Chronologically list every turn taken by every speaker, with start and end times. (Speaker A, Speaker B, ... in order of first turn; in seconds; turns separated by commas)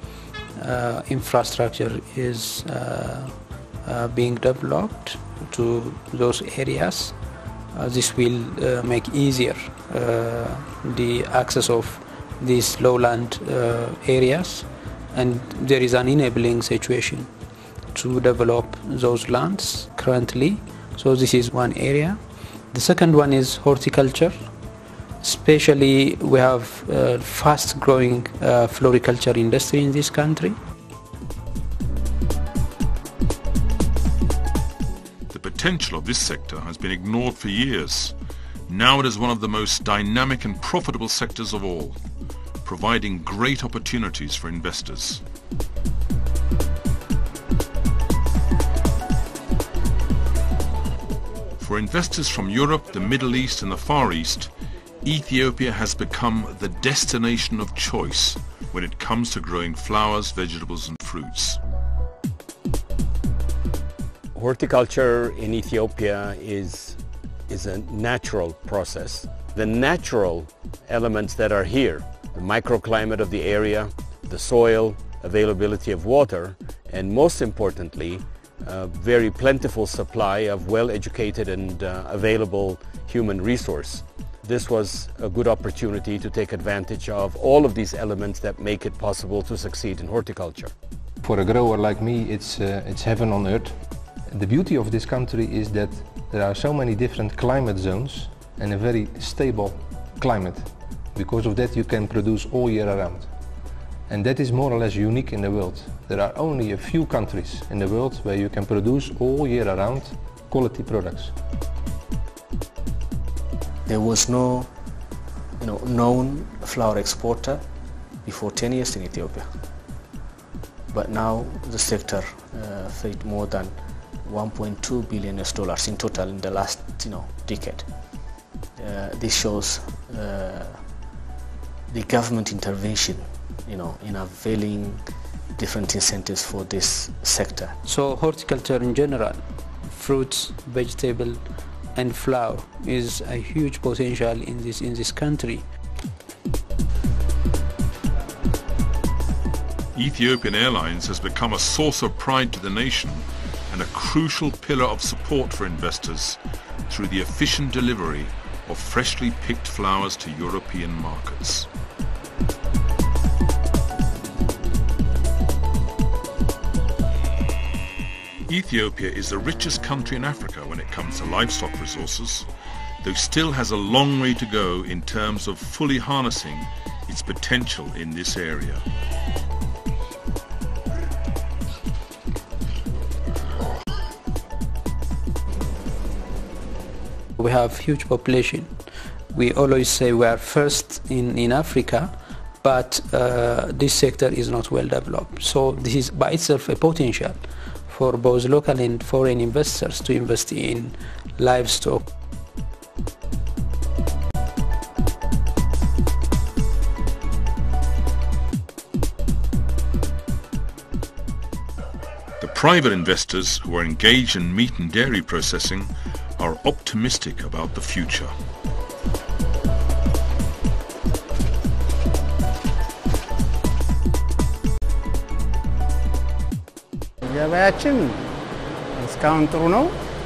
Speaker A: 0.6-7.2, Speaker A: 7.7-17.3, Speaker A: 17.9-22.2, Speaker A: 22.7-24.5, Speaker A: 25.2-30.6, Speaker B: 35.3-38.1, Speaker B: 38.7-42.0, Speaker B: 42.6-45.2, Speaker B: 51.6-54.5, Speaker B: 55.0-61.6, Speaker C: 64.3-90.7, Speaker D: 91.2-93.8, Speaker D: 94.3-103.3, Speaker D: 104.1-111.3, Speaker E: 113.8-114.7, Speaker E: 115.6-117.6, Speaker E: 118.2-119.5, Speaker E: 120.9-127.9, Speaker E: 128.8-130.8, Speaker E: 131.9-135.0, Speaker E: 135.6-137.8, Speaker A: 137.8-141.4, Speaker A: 141.9-145.7, Speaker B: 149.9-161.7, Speaker B: 168.5-172.5, Speaker B: 173.0-178.8, Speaker A: 187.4-188.8, Speaker A: 189.3-202.1, Speaker B: 212.4-218.3, Speaker F: 227.2-228.3, Speaker F: 228.9-229.9